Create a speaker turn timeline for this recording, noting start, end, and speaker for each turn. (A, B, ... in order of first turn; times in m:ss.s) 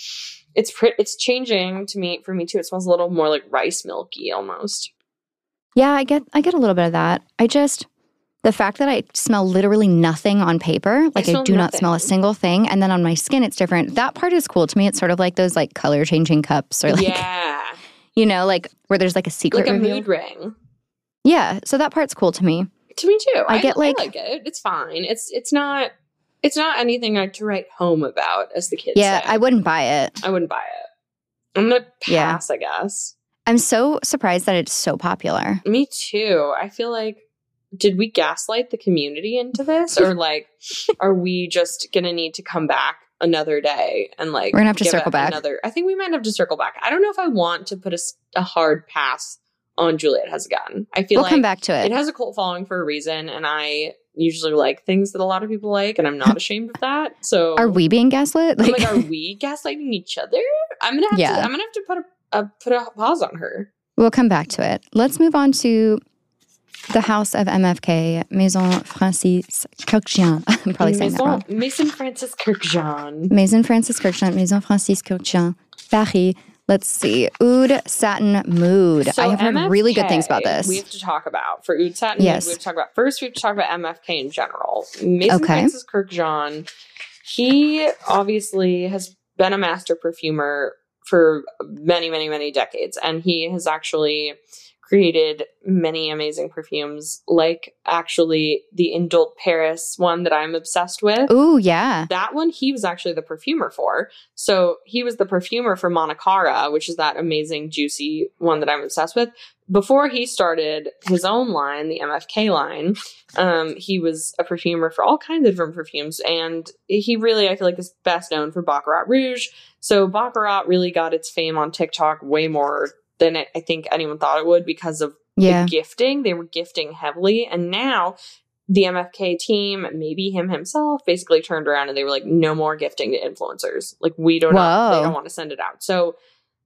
0:00.6-0:04.9 A
0:05.8-0:07.9 B
0:08.4-0:17.2 B
0:11.2-0:12.1 A
0:16.9-0:17.8 A
0:18.2-0:20.1 B
0:19.5-0:20.6 A
0:21.2-0:22.7 B
0:23.0-0:25.9 A
0:23.5-0:24.1 B
0:26.4-0:29.4 A
0:29.0-0:30.2 B
0:30.2-0:30.9 A
0:31.6-0:33.1 A
0:32.1-0:32.4 B
0:33.5-0:35.6 B
0:35.6-0:37.2 A
0:37.8-0:57.8 A
0:44.5-0:45.4 B
0:51.2-0:51.9 B
0:57.6-0:59.0 B
0:58.6-1:03.7 A
1:01.1-1:01.5 B
1:04.0-1:06.0 B
1:06.9-1:11.4 B
1:10.8-1:13.3 A
1:13.3-1:20.8 B
1:19.0-1:26.7 A
1:22.2-1:22.6 B
1:25.3-1:25.7 B
1:27.2-1:41.3 A
1:41.3-1:42.1 B
1:42.1-2:08.2 A
2:05.4-2:05.7 B
2:08.7-2:16.2 A
2:14.5-2:15.2 B